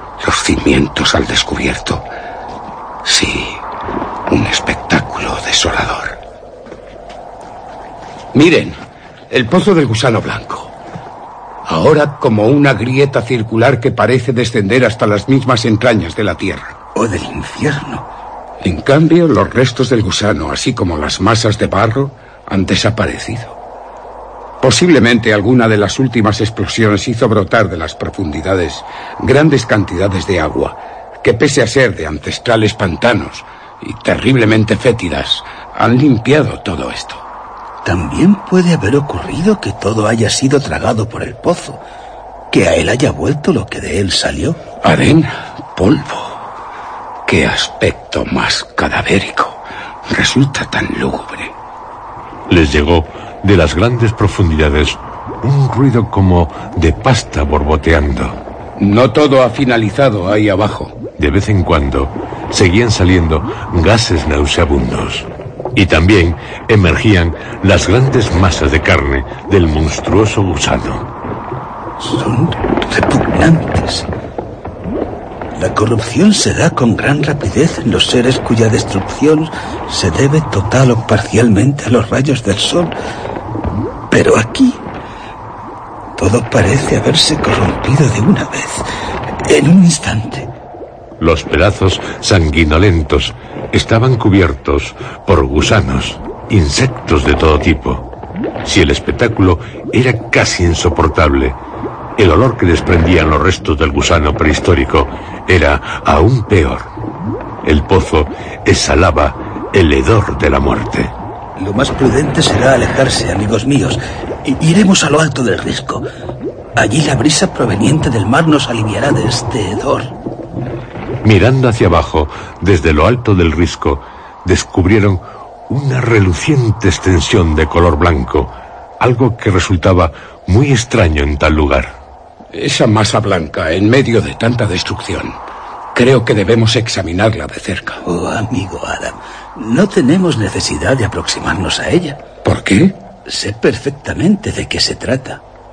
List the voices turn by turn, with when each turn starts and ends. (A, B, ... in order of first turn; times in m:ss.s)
0:00.2-0:02.1 A
0:03.0-0:03.6 A
0:04.3-0:06.2 A
0:08.3-0:08.8 A
0:09.3-0:10.7 A
0:11.6-0:16.8 A
0:16.9-0:18.1 B
0:18.6-0:23.6 A
0:24.6-0:37.3 A
0:37.8-0:41.8 B
0:42.5-0:44.6 B
0:44.8-0:46.5 A
0:47.3-0:51.6 A
0:52.5-0:58.4 C
0:58.8-1:01.0 A
1:01.2-1:11.1 C
1:12.0-1:14.1 B
1:15.6-1:22.9 B
1:24.1-1:24.8 B
1:26.2-1:28.9 B
1:29.4-1:30.5 B
1:31.2-1:38.1 C
1:38.6-1:41.6 C
1:42.2-1:46.9 C
1:47.6-1:51.1 C
1:51.6-1:56.1 B
1:56.8-2:00.2 B
2:01.2-2:11.9 C
2:12.5-2:15.4 A
2:15.9-2:18.0 A
2:18.0-2:22.2 B
2:22.4-2:23.0 A
2:23.2-2:25.4 B